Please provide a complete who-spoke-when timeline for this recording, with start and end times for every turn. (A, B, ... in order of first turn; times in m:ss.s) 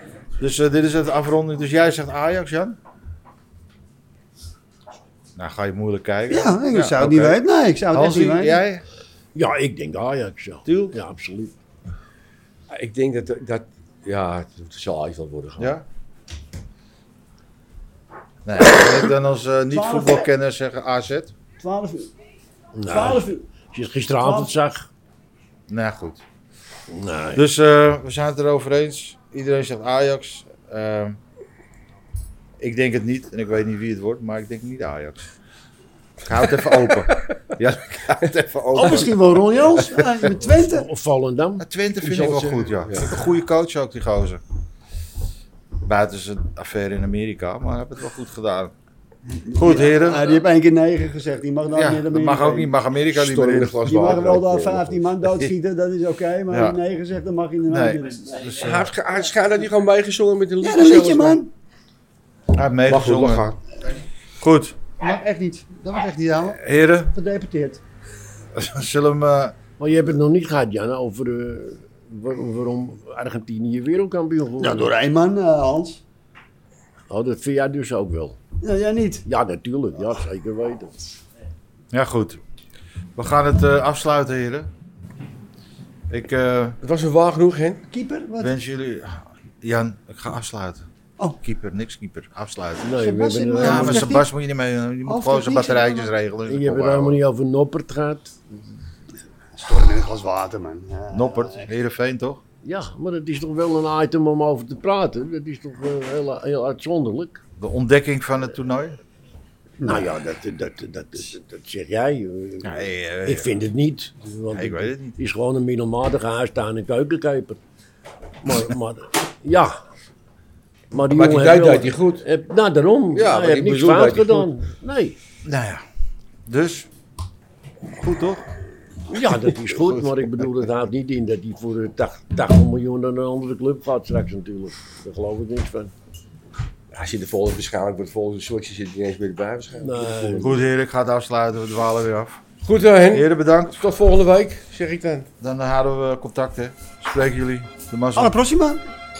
0:00.4-0:02.8 A
0:05.4-0:08.8 A
0:06.3-0:08.6 B
0:09.4-0:11.5 C
0:10.7-0:11.0 A
0:12.7-0:15.8 D
0:15.6-0:15.8 A
0:18.4-0:21.3 A
0:19.7-0:20.3 B
0:21.6-0:22.1 B
0:22.8-0:24.9 C
0:22.9-0:23.5 B
0:24.2-0:24.5 B
0:25.7-0:26.2 A
0:26.9-0:27.4 C
0:27.4-0:31.2 A
0:32.6-0:35.3 A
0:36.2-0:40.3 A
0:37.1-0:37.4 D
0:38.7-0:40.9 B
0:40.4-0:41.7 C
0:41.6-0:44.4 A
0:42.0-0:43.2 D
0:45.8-0:48.7 A
0:49.3-0:52.7 B
0:49.6-0:50.4 A
0:51.7-0:54.0 A
0:53.1-0:55.2 D
0:53.8-0:58.5 B
0:56.5-0:56.8 A
0:57.7-0:58.9 A
0:58.6-1:01.4 D
1:00.6-1:01.5 B
1:02.5-1:03.4 A
1:02.9-1:03.6 D
1:04.4-1:04.8 A
1:05.0-1:06.6 B
1:06.6-1:07.1 A
1:07.1-1:07.8 B
1:08.6-1:09.6 A
1:09.8-1:14.9 C
1:14.6-1:16.0 B
1:17.1-1:18.4 C
1:18.6-1:19.2 B
1:19.3-1:21.2 C
1:21.9-1:22.4 A
1:23.2-1:24.7 A
1:26.1-1:26.8 A
1:26.8-1:27.8 D
1:27.9-1:28.5 B
1:28.4-1:30.9 A
1:31.4-1:32.9 A
1:32.8-1:34.2 C
1:32.9-1:34.3 B
1:33.6-1:37.2 A
1:35.1-1:36.1 B
1:36.5-1:38.6 C
1:39.6-1:41.7 B
1:41.1-1:42.4 A
1:42.6-1:47.4 C
1:47.6-1:49.0 A
1:49.8-1:50.1 B
1:49.8-1:57.6 C
1:52.6-1:53.6 A
1:54.5-1:55.2 A
1:58.4-1:59.8 C
2:00.9-2:05.2 C
2:01.1-2:02.2 D
2:03.1-2:04.5 D
2:05.4-2:05.8 A
2:06.5-2:06.9 A
2:08.0-2:08.4 A
2:09.1-2:15.9 C
2:16.9-2:20.6 D
2:19.8-2:20.6 C
2:20.4-2:22.4 A
2:22.6-2:25.3 D
2:23.1-2:23.9 A
2:25.4-2:28.4 A
2:28.2-2:28.8 B